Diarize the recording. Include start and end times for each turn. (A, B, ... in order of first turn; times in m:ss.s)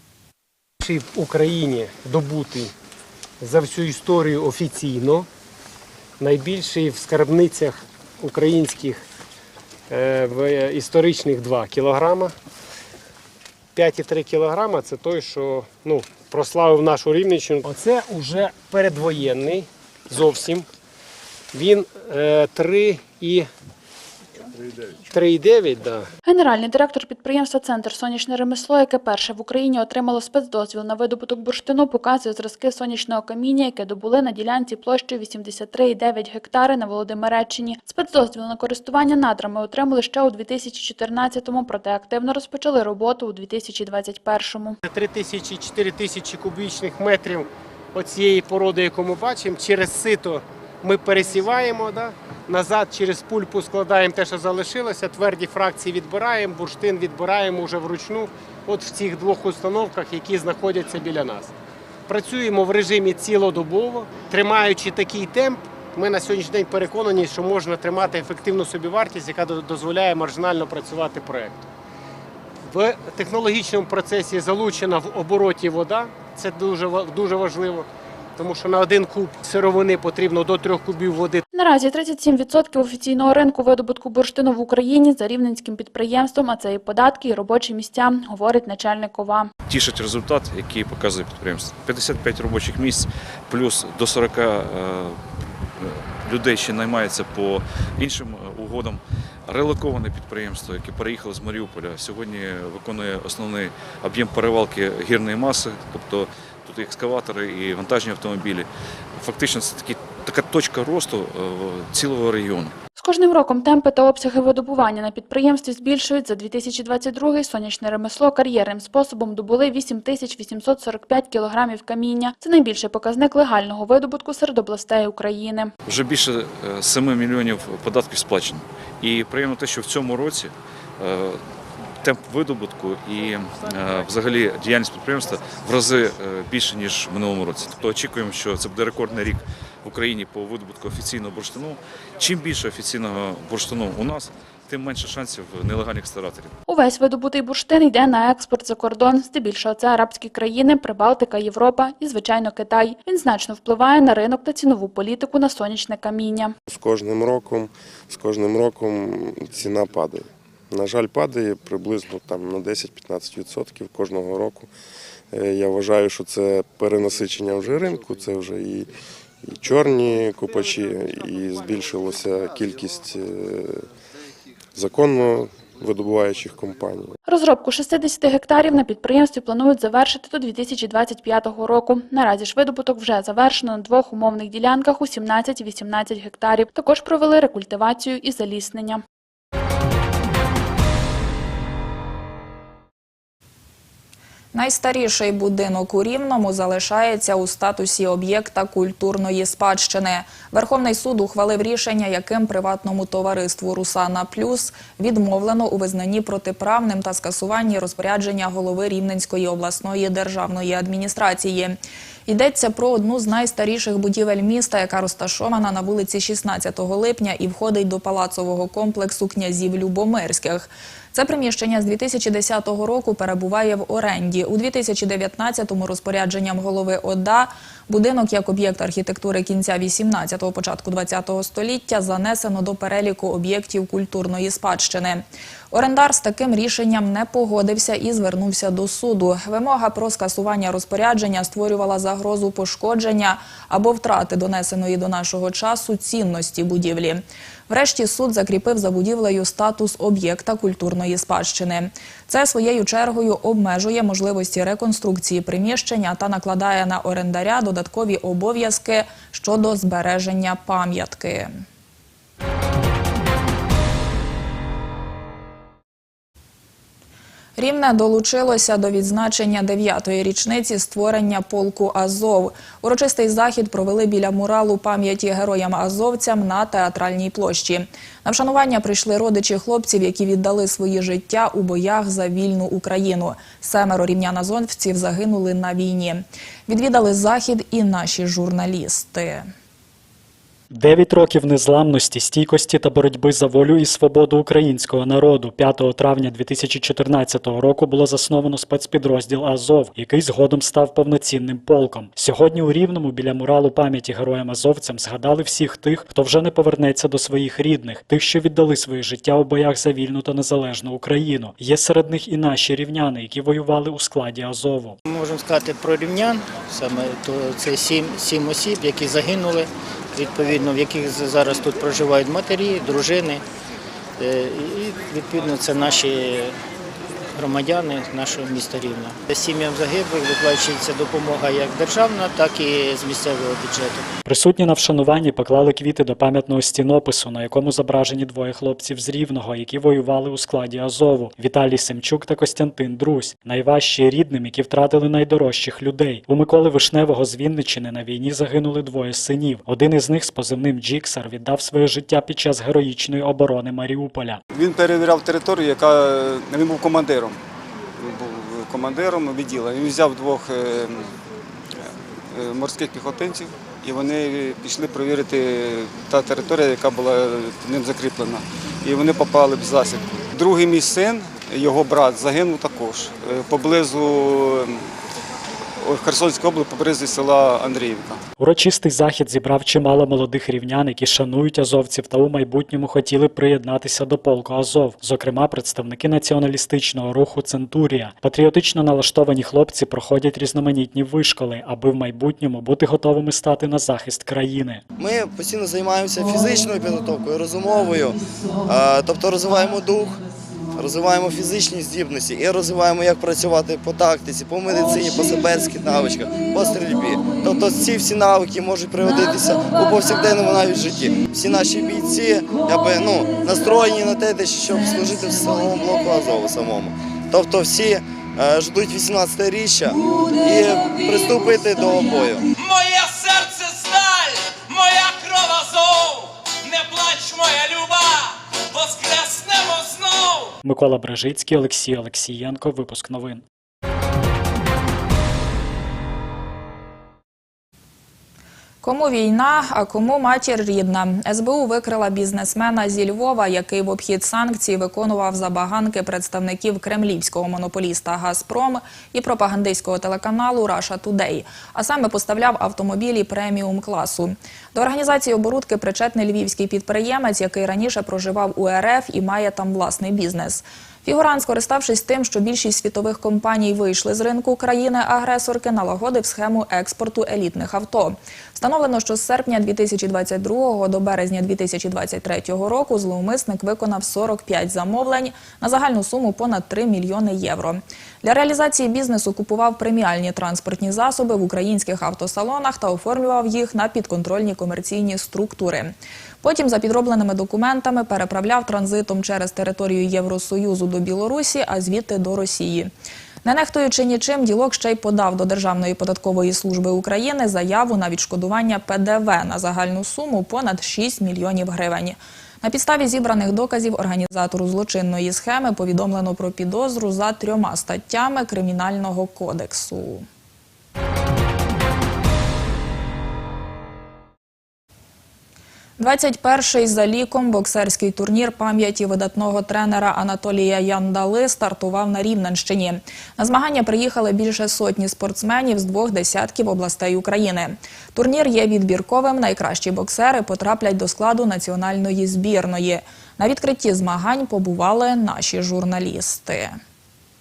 0:00.8-0:02.7 A
0:03.4-0:05.3 A
0:06.2-0:09.0 A
0:09.9-0:12.3 A
0:13.8-0:20.7 A
0:21.5-0:23.5 A
0:25.1-0:26.1 A
0:26.2-0:44.8 B
0:44.8-1:01.5 A
1:02.1-1:11.6 A
1:12.6-1:21.4 A
1:21.5-1:29.5 B
1:29.7-1:35.2 C
1:35.8-1:52.7 C
1:53.0-2:05.7 B
2:05.9-2:11.4 C
2:12.0-2:26.5 C
2:26.7-2:36.6 B
2:36.7-2:44.7 D
2:45.3-2:48.9 D
2:49.4-2:53.9 D
2:54.8-2:57.2 D
2:57.2-3:09.0 B
3:14.5-4:21.6 E
4:27.6-4:49.5 E
4:50.7-5:15.0 F
5:15.1-5:23.4 G
5:24.2-5:26.6 G
5:27.4-5:34.1 G
5:34.2-5:54.4 F
5:54.5-5:57.4 H
5:58.0-6:01.1 H
6:02.3-6:15.0 H
6:15.8-6:18.2 H
6:18.4-6:34.8 F
6:35.0-6:40.2 I
6:40.8-7:02.5 I
7:02.6-7:10.4 J
7:10.6-7:13.4 F
7:18.8-8:12.9 E
8:13.4-8:30.2 E
8:36.0-8:56.8 E